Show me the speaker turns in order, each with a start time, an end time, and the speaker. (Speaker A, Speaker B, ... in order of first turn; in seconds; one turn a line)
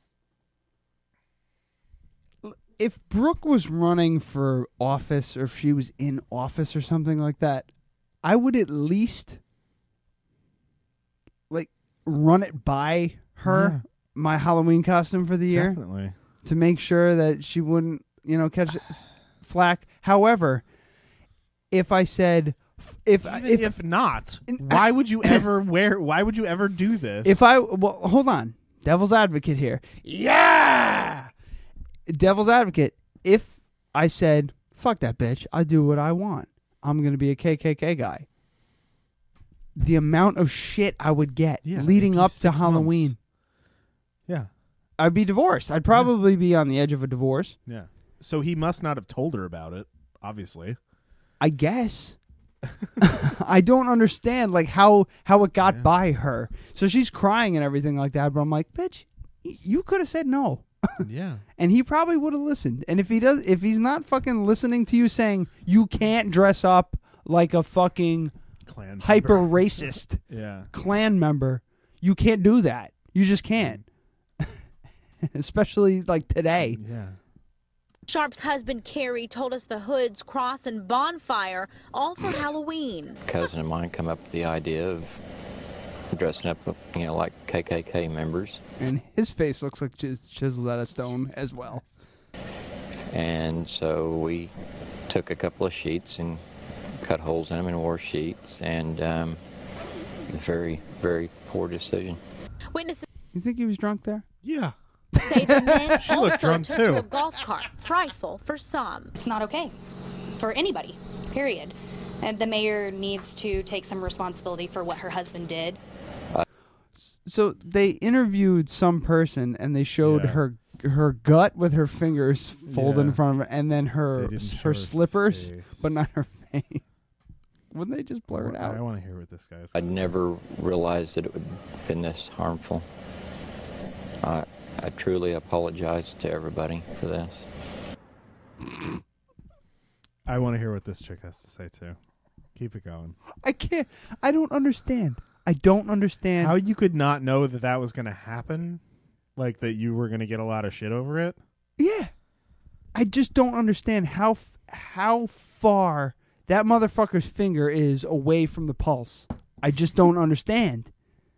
Speaker A: 2.4-7.7
Speaker A: 8.2-9.4
Speaker A: 11.5-15.8
Speaker B: 13.4-13.8
Speaker B: 15.5-16.1
Speaker A: 16.4-20.6
Speaker A: 21.7-23.8
Speaker B: 23.2-27.4
Speaker A: 24.5-25.4
Speaker A: 27.2-31.3
Speaker A: 32.1-38.3
Speaker A: 39.7-43.1
Speaker B: 41.6-43.1
Speaker A: 45.0-47.6
Speaker B: 47.6-50.8
Speaker A: 51.4-52.2
Speaker A: 53.0-61.0
Speaker B: 55.6-55.9
Speaker B: 61.0-61.4
Speaker A: 61.6-68.3
Speaker B: 68.6-70.7
Speaker A: 69.0-73.8
Speaker B: 73.5-73.8
Speaker A: 75.2-76.8
Speaker B: 76.6-77.2
Speaker C: 78.1-83.2
Speaker D: 83.3-85.1
Speaker D: 86.1-88.6
Speaker A: 88.8-91.8
Speaker B: 90.9-92.0
Speaker D: 93.1-94.5
Speaker D: 95.1-96.4
Speaker D: 97.0-99.4
Speaker D: 100.3-102.2
Speaker C: 102.7-103.0
Speaker A: 103.3-104.2
Speaker B: 104.4-104.7
Speaker A: 105.1-106.1
Speaker C: 105.2-109.1
Speaker B: 106.0-107.0
Speaker E: 109.2-115.8
Speaker A: 117.0-126.8
Speaker B: 120.0-120.4
Speaker B: 122.7-123.2
Speaker B: 124.1-126.0
Speaker A: 127.7-128.8
Speaker B: 128.3-130.2
Speaker D: 129.7-132.8
Speaker D: 134.2-137.4
Speaker B: 140.2-142.0
Speaker B: 142.5-143.2
Speaker A: 143.4-146.6
Speaker B: 146.4-148.8
Speaker B: 149.3-151.4
Speaker A: 151.8-152.1
Speaker A: 152.9-160.9